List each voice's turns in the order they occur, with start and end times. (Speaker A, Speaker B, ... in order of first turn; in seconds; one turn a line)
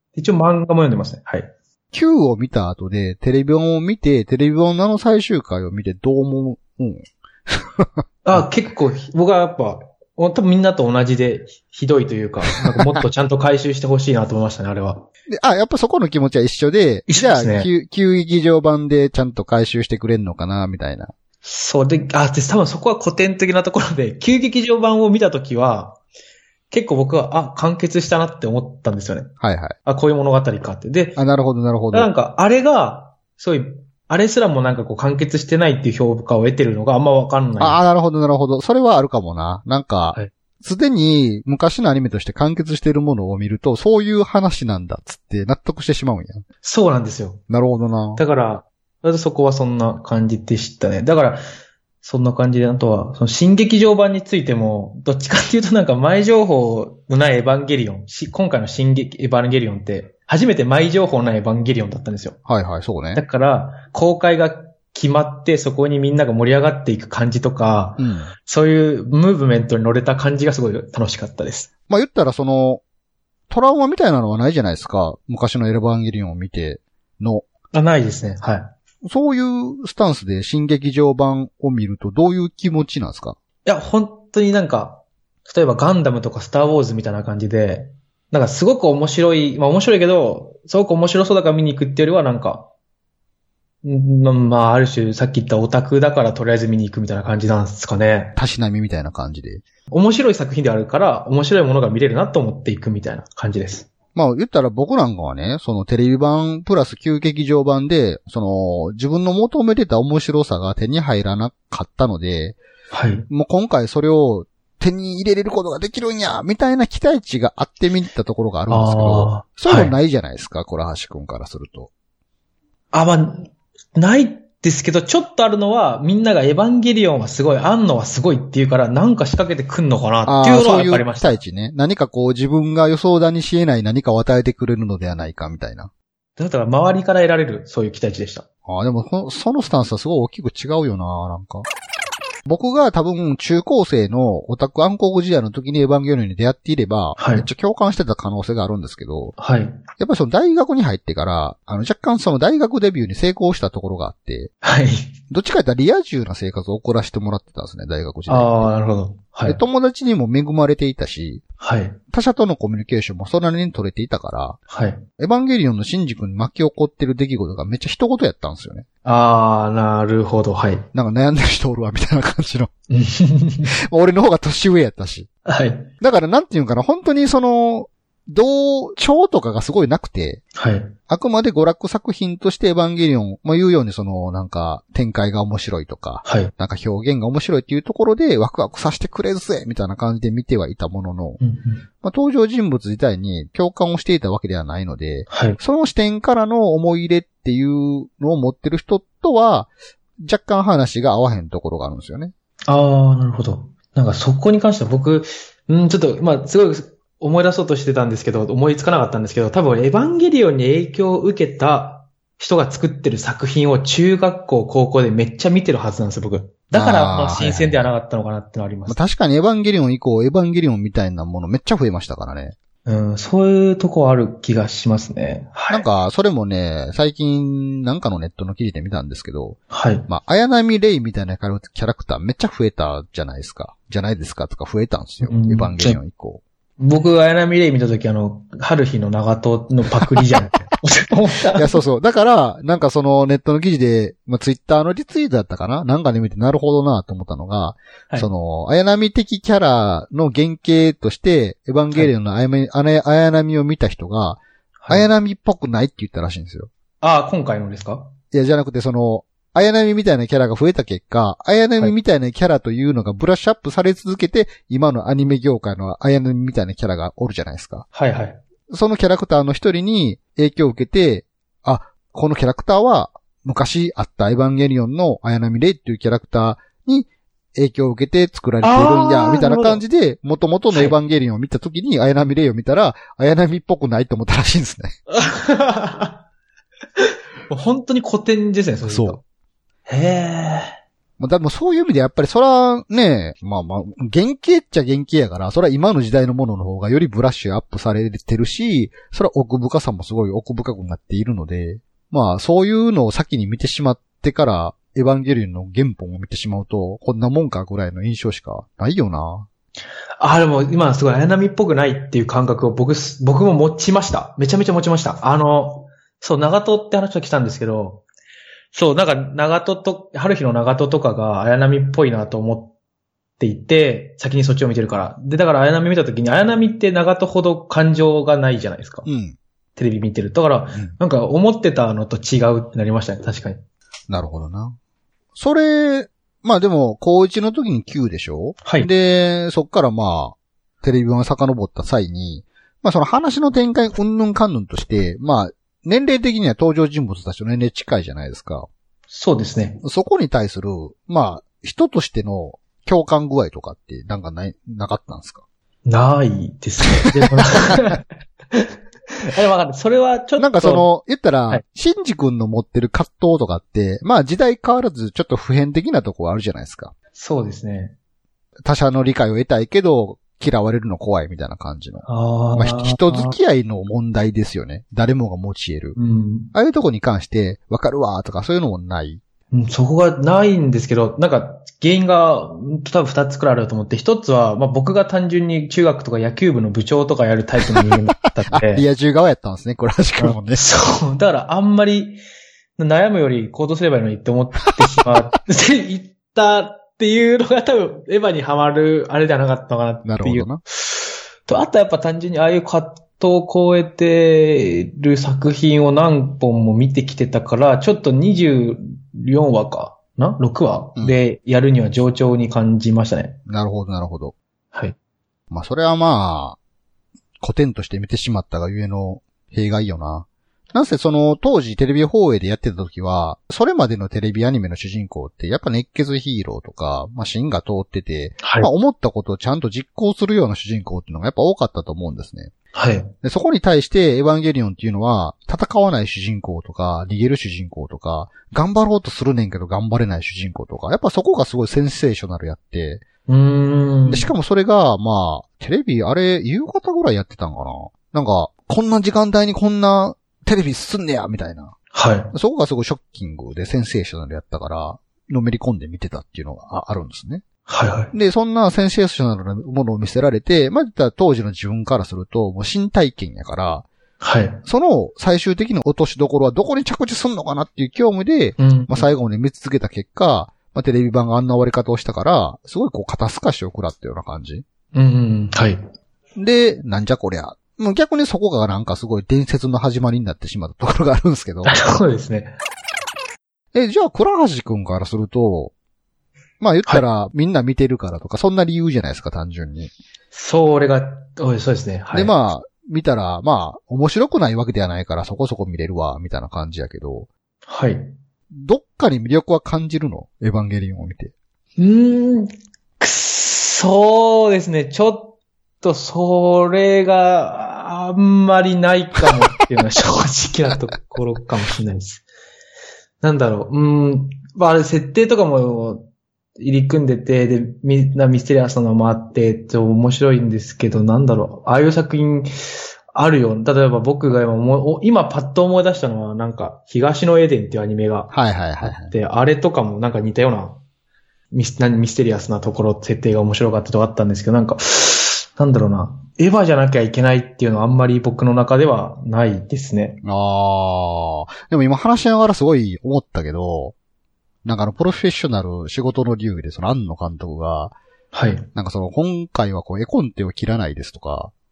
Speaker A: 0.1-1.5
Speaker B: 1.9-8.4
Speaker A: 8.2-15.1
Speaker B: 15.3-21.1
Speaker A: 17.1-17.7
Speaker A: 21.4-26.0
Speaker A: 26.7-29.3
Speaker B: 29.4-29.8
Speaker A: 29.9-31.2
Speaker B: 31.2-32.1
Speaker A: 31.9-37.8
Speaker B: 37.6-46.4
Speaker A: 46.6-47.4
Speaker B: 47.5-48.2
Speaker A: 48.2-51.4
Speaker A: 52.0-62.4
Speaker B: 62.5-63.2
Speaker A: 63.1-71.7
Speaker B: 68.0-68.3
Speaker B: 71.9-72.8
Speaker B: 73.5-77.5
Speaker A: 77.7-78.7
Speaker B: 79.0-83.4
Speaker A: 83.7-92.7
Speaker A: 93.8-98.4
Speaker B: 98.4-99.6
Speaker A: 99.9-103.9
Speaker B: 104.2-112.6
Speaker A: 112.9-113.3
Speaker B: 113.3-121.9
Speaker A: 118.7-120.0
Speaker A: 122.9-131.4
Speaker B: 130.3-135.9
Speaker A: 136.4-138.4
Speaker B: 138.7-141.7
Speaker B: 142.4-149.4
Speaker A: 147.2-147.5
Speaker A: 149.4-149.8
Speaker B: 150.0-154.5
Speaker A: 154.6-155.1
Speaker B: 155.3-158.7
Speaker A: 158.3-159.6
Speaker B: 159.5-161.4
Speaker A: 161.6-162.0
Speaker B: 162.1-164.6
Speaker A: 164.7-165.0
Speaker B: 165.2-168.9
Speaker A: 169.1-170.9
Speaker B: 170.9-172.7
Speaker A: 172.9-173.8
Speaker B: 173.8-175.3
Speaker A: 175.5-175.9
Speaker B: 176.0-180.4
Speaker A: 180.6-180.9
Speaker B: 181.1-191.4
Speaker A: 186.2-186.5
Speaker A: 191.4-191.8
Speaker B: 192.0-199.7
Speaker A: 195.3-195.6
Speaker B: 200.2-202.3
Speaker A: 202.7-219.0
Speaker B: 216.7-217.9
Speaker B: 218.9-222.6
Speaker A: 222.9-225.9
Speaker B: 225.7-236.4
Speaker A: 229.7-230.1
Speaker A: 235.2-236.0
Speaker A: 236.8-241.8
Speaker B: 241.6-256.7
Speaker A: 254.8-255.1
Speaker A: 257.0-258.1
Speaker B: 258.3-267.9
Speaker A: 267.9-268.4
Speaker B: 268.7-285.0
Speaker A: 278.6-279.8
Speaker A: 280.7-281.0
Speaker A: 285.1-286.2
Speaker A: 287.5-289.2
Speaker B: 288.9-289.2
Speaker A: 289.9-290.8
Speaker B: 291.2-309.5
Speaker A: 310.2-318.0
Speaker A: 318.7-322.7
Speaker A: 323.4-329.1
Speaker B: 329.1-329.4
Speaker A: 329.8-333.6
Speaker B: 334.1-334.8
Speaker B: 335.4-348.7
Speaker A: 338.6-338.9
Speaker A: 349.1-349.8
Speaker B: 349.8-355.4
Speaker A: 355.9-358.0
Speaker A: 359.2-360.9
Speaker B: 360.4-366.9
Speaker A: 367.1-367.9
Speaker B: 368.6-376.0
Speaker A: 372.1-373.4
Speaker A: 376.0-376.5
Speaker B: 376.5-379.2
Speaker A: 379.5-388.9
Speaker B: 388.5-390.6
Speaker A: 390.2-392.2
Speaker A: 392.8-413.4
Speaker B: 400.1-400.6
Speaker B: 413.5-414.3
Speaker B: 415.5-416.6
Speaker B: 417.4-432.5
Speaker A: 428.4-428.7
Speaker A: 432.8-433.1
Speaker B: 433.2-443.1
Speaker A: 443.3-444.3
Speaker B: 444.1-451.7
Speaker A: 451.9-452.3
Speaker B: 452.3-457.4
Speaker A: 457.7-458.1
Speaker B: 458.1-463.9
Speaker A: 464.2-464.6
Speaker B: 464.6-474.6
Speaker A: 468.6-469.1
Speaker A: 474.9-475.8
Speaker B: 476.4-481.8
Speaker A: 481.6-482.5
Speaker B: 483.7-485.7
Speaker B: 486.6-489.9
Speaker A: 490.3-492.3
Speaker B: 492.1-497.3
Speaker A: 497.7-498.1
Speaker B: 498.5-501.3
Speaker A: 501.8-512.2
Speaker A: 513.2-522.5
Speaker A: 523.1-530.8
Speaker B: 528.3-529.1
Speaker A: 531.5-540.2
Speaker B: 540.2-544.0
Speaker B: 544.6-548.0
Speaker A: 548.3-548.7
Speaker B: 548.8-551.5